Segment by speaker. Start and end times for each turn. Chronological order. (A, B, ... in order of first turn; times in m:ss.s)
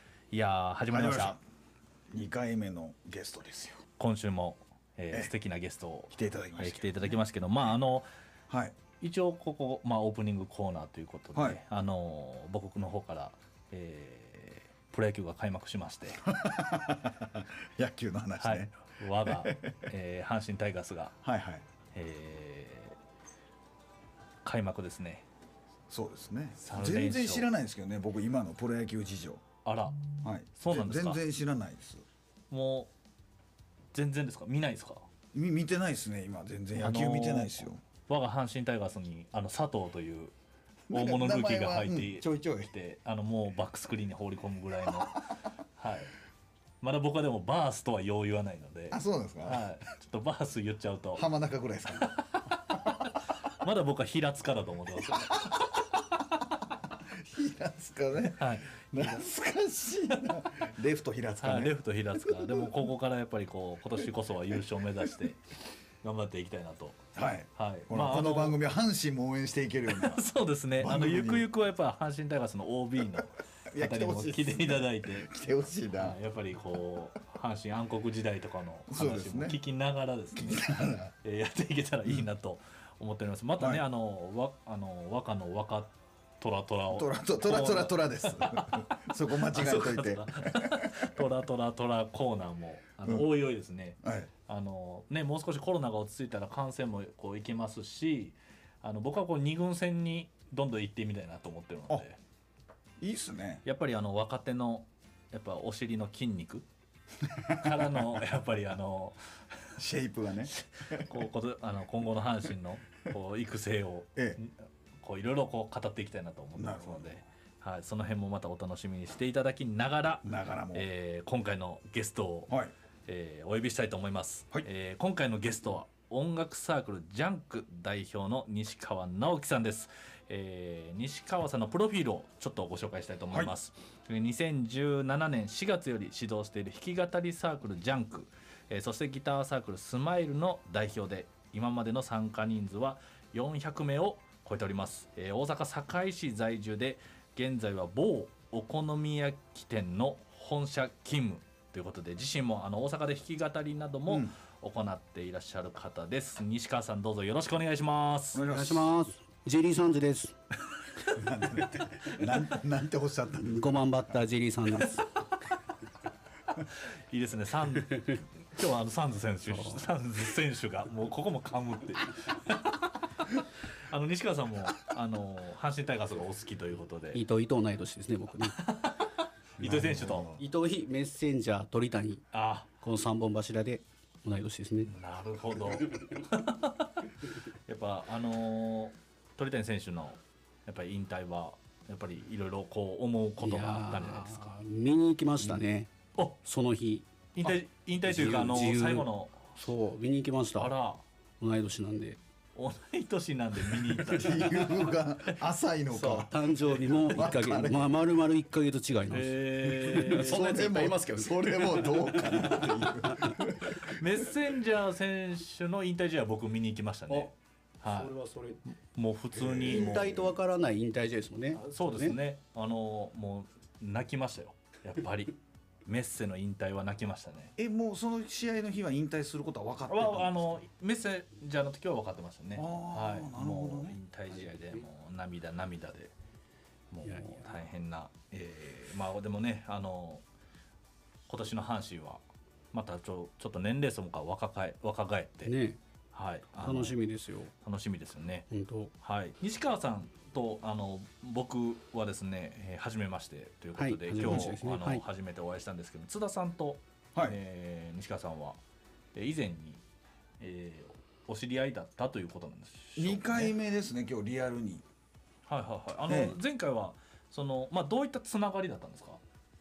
0:00.3-0:01.4 A
0:00.9-0:01.4 B
0:02.1-0:03.8 B
0:04.0-0:08.1 A
0:06.1-0:07.2 B
0:08.5-0:08.8 B
0:09.0-0:16.2 A
0:11.3-0:11.6 B
0:16.2-0:18.7 B
0:18.4-0:21.2 A
0:19.2-0:19.8 B
0:21.2-0:21.6 B
0:21.9-0:23.0 A
0:24.4-0:25.2 A
0:25.9-0:29.4 B
0:26.6-0:27.5 A
0:29.6-0:31.2 A
0:30.2-0:32.0 B
0:32.5-0:32.9 A
0:33.9-0:35.1 A
0:35.3-0:37.8 B
0:36.8-0:40.3 A
0:40.9-0:42.7 B
0:40.9-0:45.3 A
0:45.8-0:46.1 A
0:46.8-0:51.2 A
0:48.9-0:49.7 B
0:51.1-0:52.2 B
0:52.0-0:52.6 A
0:53.6-0:55.6 A
0:55.4-0:55.7 B
0:56.9-1:02.8 B
0:58.4-0:59.1 A
1:00.1-1:00.4 A
1:01.4-1:05.4 A
1:06.0-1:08.6 A
1:07.1-1:10.2 B
1:09.9-1:15.3 A
1:10.8-1:11.5 B
1:13.7-1:16.2 B
1:15.9-1:42.2 A
1:18.9-1:19.6 B
1:20.3-1:21.1 B
1:23.6-1:23.8 B
1:26.9-1:31.0 B
1:34.0-1:34.3 B
1:43.0-1:43.6 B
1:43.6-1:46.6 A
1:47.4-1:49.2 A
1:49.8-1:51.2 B
1:50.5-2:02.5 A
1:56.6-1:57.2 B
2:00.2-2:00.9 B
2:03.1-2:38.4 A
2:34.1-2:34.3 B
2:38.3-2:38.9 B
2:38.5-2:40.3 C
2:41.1-2:43.9 B
2:43.4-2:45.0 C
2:46.7-2:57.2 A
2:57.1-2:58.6 C
2:58.5-3:00.3 A
2:59.6-3:00.4 B
3:00.4-3:02.2 C
3:02.3-3:02.7 A
3:02.8-3:04.9 C
3:04.8-3:07.0 A
3:07.7-3:14.6 A
3:13.4-3:20.7 C
3:17.3-3:19.5 A
3:20.6-3:21.0 A
3:21.4-3:22.2 C
3:22.6-3:25.4 A
3:24.1-3:28.0 B
3:25.9-3:32.6 C
3:29.1-3:30.6 A
3:30.0-3:34.2 B
3:32.2-3:32.8 A
3:33.8-3:38.1 A
3:37.8-3:38.6 C
3:38.9-3:40.0 A
3:39.3-3:40.4 B
3:39.6-3:42.2 C
3:41.5-3:47.5 A
3:47.6-3:50.5 B
3:49.9-3:56.1 A
3:52.5-3:54.0 B
3:54.3-3:54.8 C
3:56.9-4:00.2 A
3:57.0-3:57.6 C
4:01.3-4:02.2 A
4:02.7-4:05.5 A
4:05.4-4:05.8 C
4:06.1-4:07.0 A
4:06.6-4:07.5 C
4:07.6-4:08.5 A
4:08.5-4:08.9 C
4:09.0-4:18.6 A
4:13.8-4:15.0 C
4:19.1-4:19.8 A
4:20.4-4:23.5 A
4:23.0-4:24.8 B
4:25.5-4:29.2 A
4:26.1-4:26.4 B